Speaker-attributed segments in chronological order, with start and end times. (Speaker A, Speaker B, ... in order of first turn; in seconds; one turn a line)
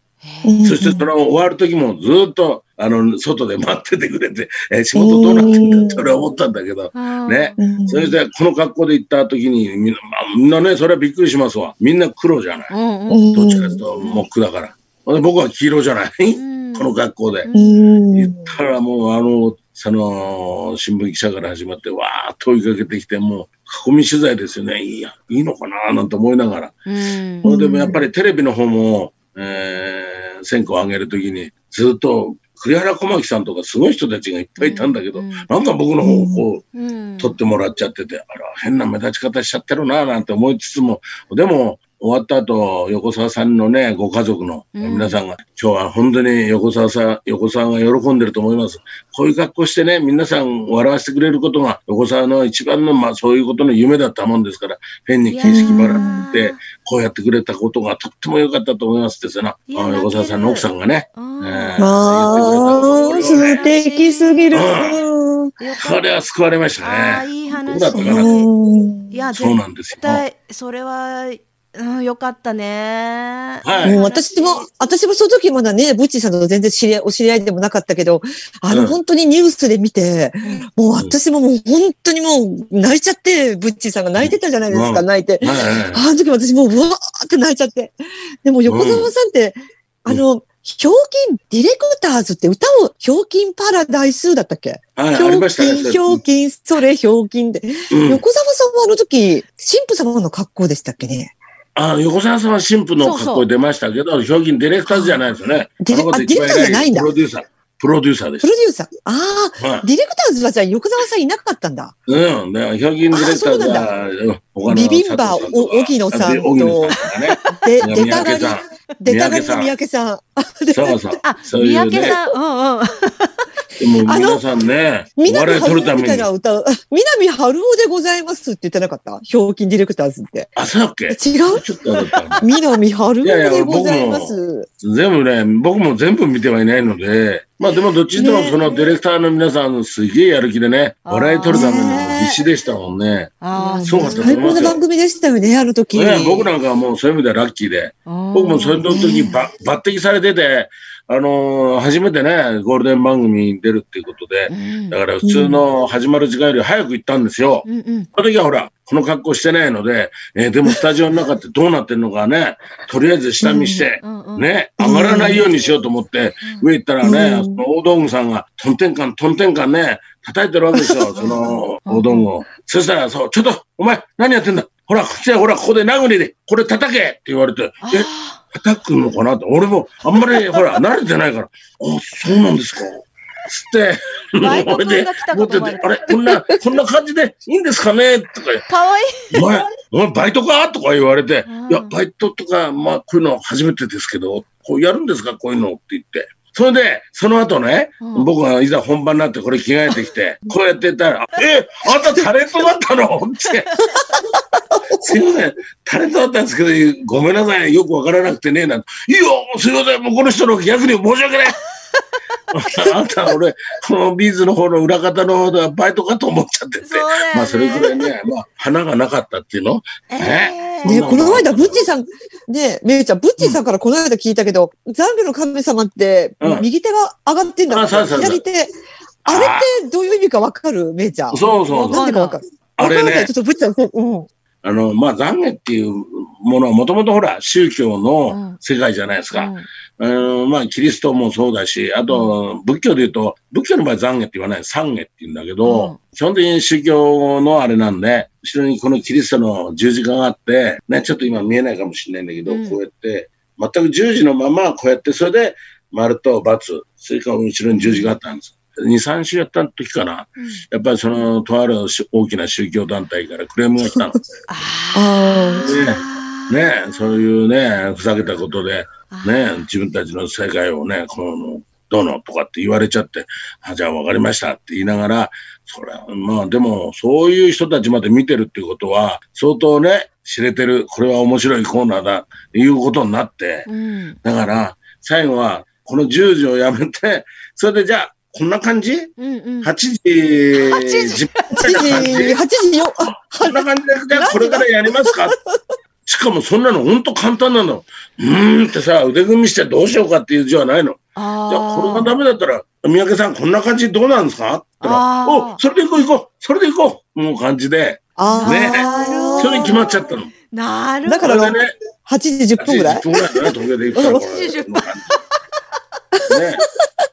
Speaker A: 0.2-0.7
Speaker B: 0.5-1.1
Speaker C: 0.6-12.7
Speaker B: 5.0-6.0
Speaker A: 6.9-7.6
Speaker B: 7.6-8.2
Speaker A: 12.7-13.3
Speaker B: 13.1-13.8
Speaker C: 13.3-17.5
Speaker A: 13.9-14.3
Speaker A: 16.3-16.9
Speaker A: 17.4-17.8
Speaker B: 17.5-18.5
Speaker C: 18.1-26.8
Speaker A: 26.9-27.5
Speaker B: 27.4-28.0
Speaker C: 27.4-36.6
Speaker A: 34.6-35.5
Speaker B: 36.0-36.4
Speaker A: 36.7-37.4
Speaker C: 37.2-63.7
Speaker A: 44.8-45.2
Speaker A: 55.3-56.6
Speaker B: 55.5-56.3
Speaker A: 59.7-64.6
Speaker B: 61.8-65.5
Speaker C: 64.5-65.0
Speaker A: 65.6-66.0
Speaker C: 65.8-68.3
Speaker A: 66.8-68.5
Speaker B: 68.0-69.2
Speaker A: 69.1-74.7
Speaker C: 69.3-70.2
Speaker C: 73.6-74.0
Speaker B: 73.8-101.3
Speaker C: 78.7-79.0
Speaker C: 84.2-86.1
Speaker C: 88.7-89.1
Speaker C: 95.0-96.2
Speaker C: 97.9-98.2
Speaker C: 101.8-108.5
Speaker A: 103.0-103.5
Speaker B: 104.9-105.2
Speaker B: 105.8-107.1
Speaker B: 108.4-111.9
Speaker C: 109.6-109.9
Speaker C: 112.1-119.7
Speaker B: 113.1-113.9
Speaker B: 114.7-117.0
Speaker A: 117.1-118.2
Speaker B: 117.5-121.0
Speaker C: 120.7-122.2
Speaker A: 121.2-123.6
Speaker C: 123.8-126.3
Speaker B: 124.0-124.4
Speaker B: 125.2-130.5
Speaker C: 130.6-132.5
Speaker B: 131.1-131.7
Speaker B: 132.4-134.7
Speaker C: 133.2-144.8
Speaker B: 138.2-138.7
Speaker A: 141.1-142.1
Speaker B: 141.5-142.4
Speaker A: 143.4-144.6
Speaker B: 143.6-146.5
Speaker C: 145.9-188.7
Speaker A: 148.1-148.8
Speaker B: 148.9-149.5
Speaker A: 154.5-155.0
Speaker B: 155.2-155.6
Speaker A: 157.7-158.1
Speaker B: 163.4-163.8
Speaker A: 164.0-164.5
Speaker B: 164.8-165.4
Speaker A: 166.4-166.7
Speaker B: 167.0-167.6
Speaker B: 170.7-171.5
Speaker A: 171.2-172.3
Speaker A: 177.8-178.4
Speaker A: 184.4-185.9
Speaker A: 188.7-189.7
Speaker C: 189.3-203.8
Speaker A: 191.5-192.0
Speaker A: 198.0-198.3
Speaker B: 204.0-205.0
Speaker C: 204.9-211.6
Speaker C: 212.5-221.8
Speaker A: 216.8-218.1
Speaker A: 220.1-221.1
Speaker B: 220.8-228.7
Speaker C: 226.4-226.7
Speaker C: 227.7-228.4
Speaker C: 229.3-229.7
Speaker B: 229.3-234.3
Speaker C: 231.3-232.1
Speaker A: 231.8-232.4
Speaker C: 232.8-233.3
Speaker C: 234.6-264.2
Speaker A: 238.3-238.6
Speaker A: 239.3-239.7
Speaker A: 242.1-242.3
Speaker A: 245.6-246.0
Speaker A: 252.5-252.8
Speaker A: 260.4-260.6
Speaker A: 264.5-267.3
Speaker B: 264.9-265.8
Speaker C: 265.6-283.7
Speaker A: 269.1-269.7
Speaker A: 283.7-284.2
Speaker C: 284.2-292.4
Speaker A: 289.2-289.7
Speaker A: 290.5-291.9
Speaker B: 291.5-295.6
Speaker C: 293.4-295.4
Speaker C: 296.1-310.3
Speaker A: 301.2-302.1
Speaker A: 304.8-305.6
Speaker B: 308.2-309.8
Speaker A: 308.2-311.4
Speaker B: 311.1-314.2
Speaker C: 311.2-311.7
Speaker C: 312.6-315.2
Speaker A: 314.0-315.2
Speaker C: 316.3-316.6